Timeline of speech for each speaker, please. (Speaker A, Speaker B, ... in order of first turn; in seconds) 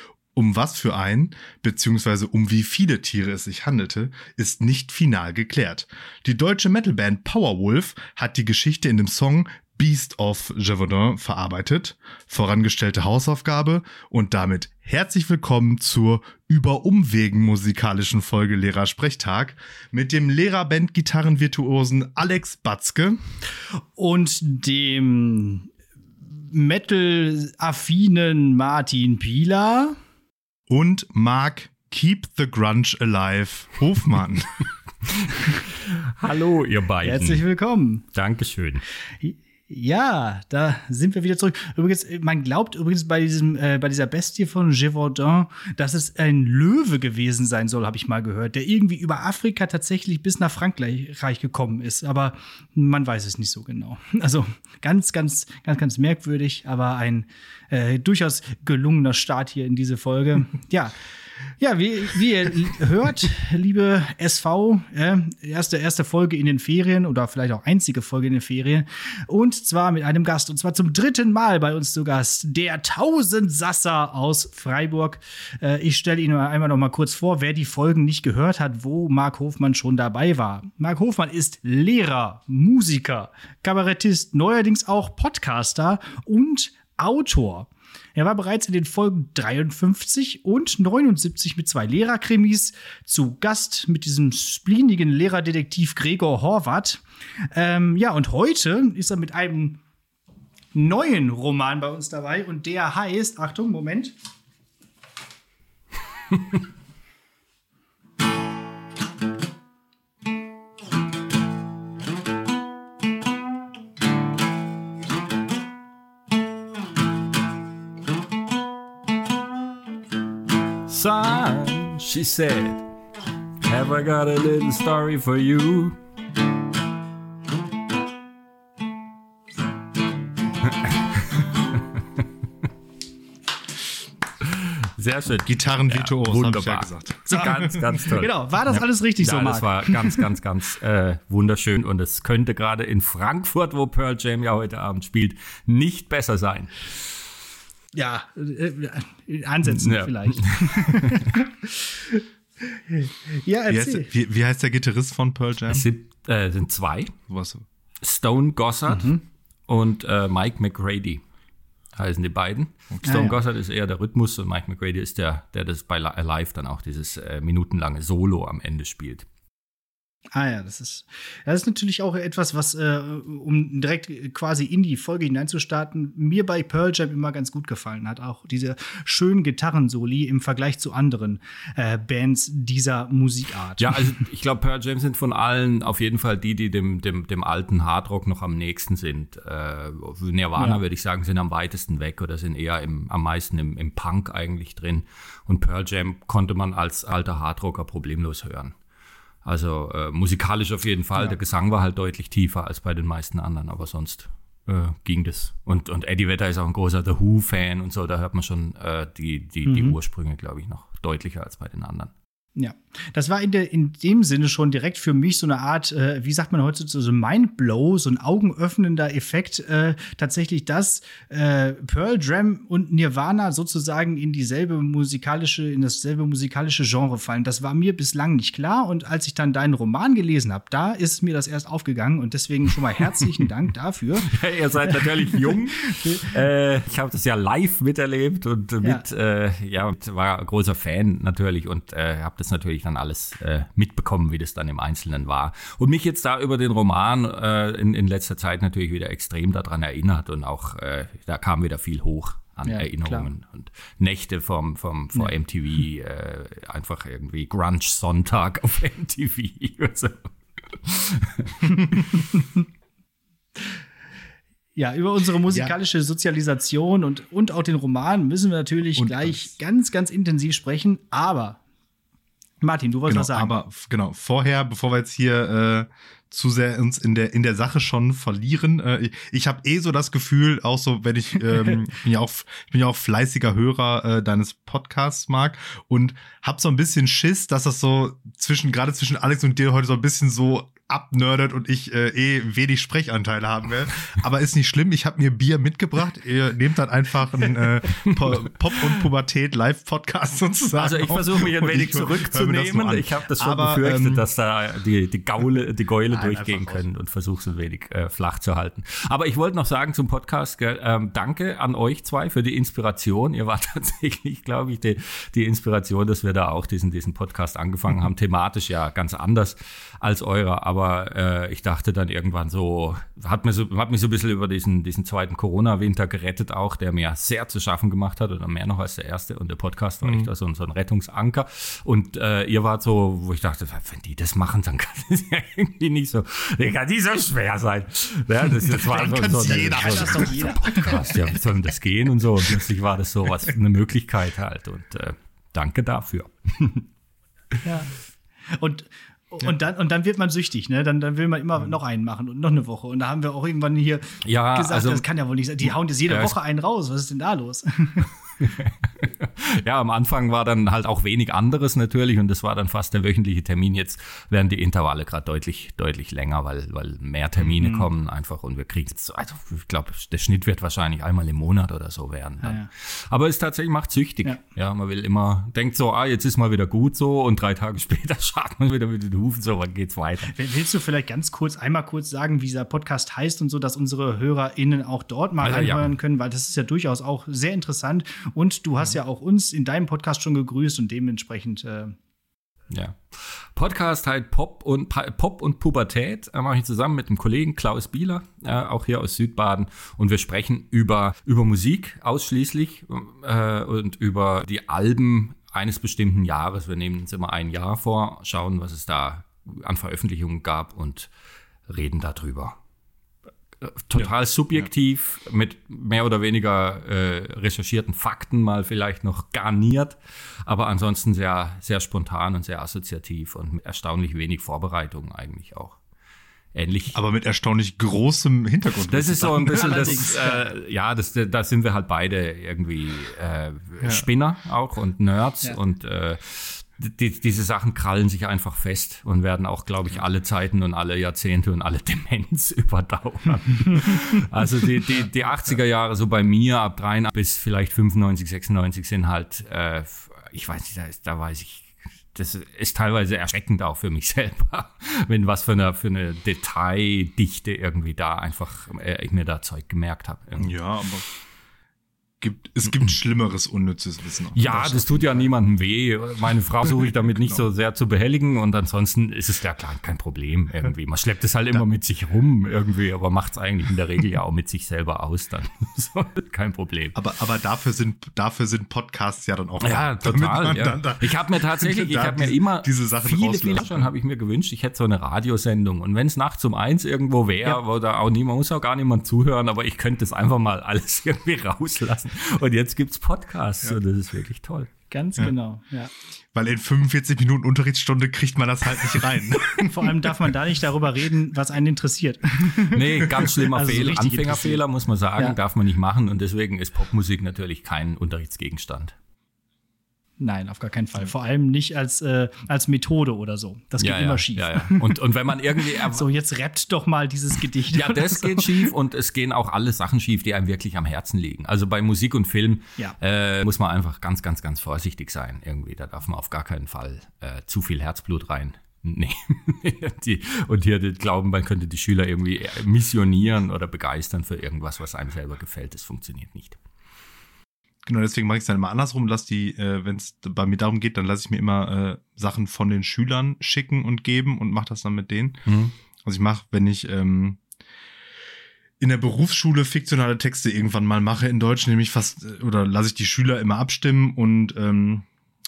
Speaker A: 0.3-23.2, 30.7-34.6, 135.4-137.6, 153.7-155.8, 157.3-157.7, 269.0-269.5, 273.1-304.3, 306.1-306.9, 330.0-330.3, 338.6-341.1, 426.9-430.1, 460.4-461.1, 462.2-465.3, 476.9-483.9, 496.3-499.7, 537.9-545.4, 546.0-547.4, 548.8-555.1
Speaker B: 24.0-25.7, 26.4-30.0, 37.0-38.0, 39.2-61.0, 61.6-99.8, 100.7-104.1, 137.3-140.2, 147.9-152.2, 152.9-154.1, 158.9-159.2, 163.0-163.4, 170.3-184.1, 190.6-190.8, 209.7-210.0, 212.6-234.3, 234.9-236.3, 252.7-253.3, 264.8-271.6, 272.6-273.5, 339.7-341.1, 347.6-347.9, 348.5-358.1, 367.6-367.9, 372.4-372.7, 380.3-391.9, 429.5-430.4, 494.9-495.9, 499.6-504.6, 510.2-515.0, 515.7-518.7
Speaker C: 35.1-37.4, 38.1-38.8, 120.9-122.9, 123.7-126.0, 130.8-131.4, 134.4-146.7, 149.7-151.3, 155.7-157.2, 158.0-161.2, 161.9-169.2, 183.8-198.7, 199.4-212.1, 234.2-262.1, 300.8-346.9, 354.2-355.0, 355.7-356.4, 358.4-380.3, 385.4-385.9, 392.7-411.1, 411.7-412.6, 413.6-425.8, 426.5-427.0, 428.9-460.6, 464.3-477.0, 479.6-494.7, 502.7-508.9, 513.8-516.1, 517.7-536.6, 545.5-545.7